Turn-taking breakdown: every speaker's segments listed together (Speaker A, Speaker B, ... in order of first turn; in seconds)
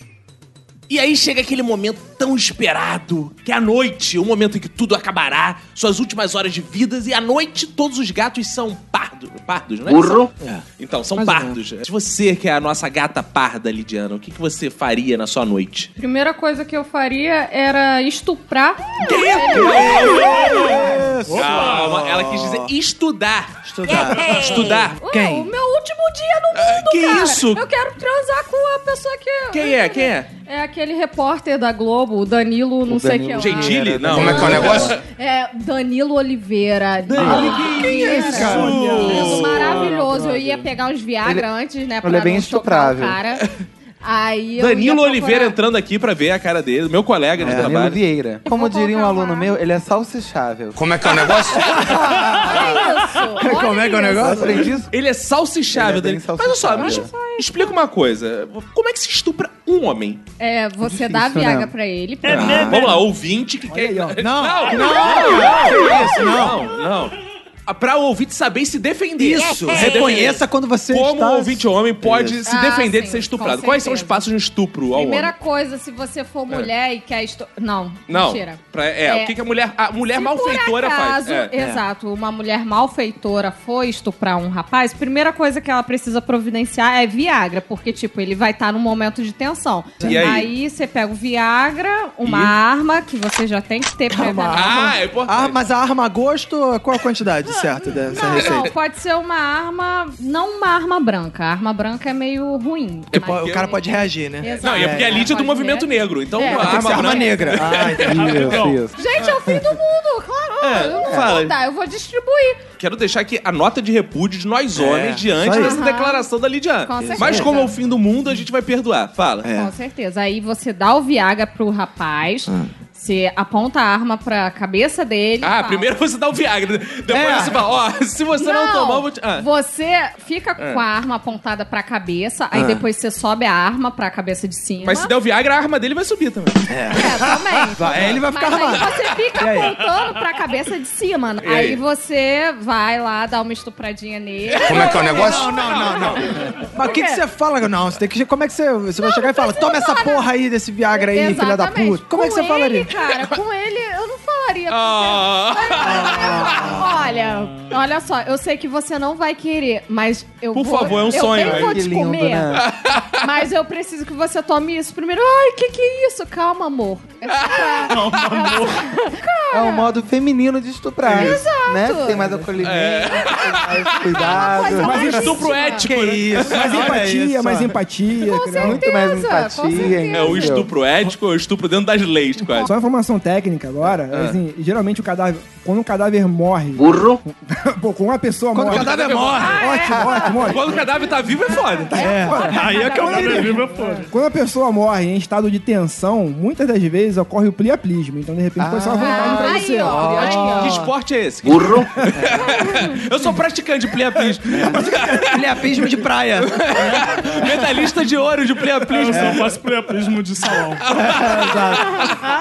Speaker A: 0.9-15.9, 19.1-20.7, 21.4-25.0, 26.6-27.6, 29.5-30.3, 33.4-35.0, 37.1-39.9, 44.6-48.0, 54.9-60.2, 62.3-67.1, 67.7-75.3, 78.1-81.5, 90.0-90.5, 92.2-92.5, 94.5-95.6, 103.1-103.7, 104.6-108.2, 110.6-111.5, 112.8-119.5, 125.4-129.5, 134.8-136.7, 137.8-138.2, 141.4-141.8, 144.6-146.2, 154.7-156.8, 160.5-161.8, 162.6-163.2, 167.5-167.8, 171.1-171.4, 172.6-177.0, 180.1-182.7, 188.7-189.6, 190.5-192.1, 200.5-209.5, 210.9-212.1
Speaker B: 9.9-10.6, 11.2-11.6, 19.0-22.7, 23.6-25.5, 37.1-39.5, 47.4-47.8, 51.5-54.7, 62.4-62.9, 64.2-66.7, 69.2-72.4, 81.6-81.8, 90.0-90.3, 94.1-98.7, 103.1-105.3, 106.4-108.6, 114.8-115.8, 117.0-117.5, 119.4-119.7, 122.5-122.7, 127.1-127.6, 132.5-132.8, 136.7-139.7, 145.1-152.9, 155.8-157.0, 175.8-177.8, 188.5-190.4, 191.9-193.6, 200.0-200.9, 201.5-202.2, 204.6-207.9, 209.1-209.5, 210.9-212.1
Speaker C: 16.0-20.8, 24.2-33.8, 34.7-43.4, 44.0-45.6, 48.5-49.5, 52.3-54.7, 56.8-57.5, 60.4-63.0, 64.7-66.4, 72.5-74.3, 74.9-79.3, 80.1-94.9, 97.5-103.8, 104.4-107.6, 109.0-112.6, 115.5-116.3, 116.8-117.8, 119.5-125.9, 128.4-135.1, 136.9-147.2, 149.0-150.3, 150.9-162.6, 163.2-169.9, 171.1-172.3, 174.2-175.9, 178.2-180.6, 189.4-190.3, 191.5-193.6, 199.0-200.8
Speaker D: 20.0-22.0, 62.2-63.0, 108.0-108.8, 167.9-168.9, 193.1-194.1, 209.0-210.9
Speaker E: 32.9-35.0, 37.1-37.7, 42.0-43.2, 47.4-50.9, 54.1-54.9, 55.7-57.1, 60.8-61.7, 107.9-109.8, 111.0-111.4, 161.2-162.7, 169.5-175.3, 178.6-180.7, 198.6-200.0
Speaker F: 34.1-34.9, 50.8-51.7, 144.6-145.5
Speaker G: 38.4-39.2, 39.8-40.1, 63.7-64.2, 172.2-172.5, 174.8-175.5, 176.4-178.9, 182.6-189.0, 189.6-190.7, 192.0-200.6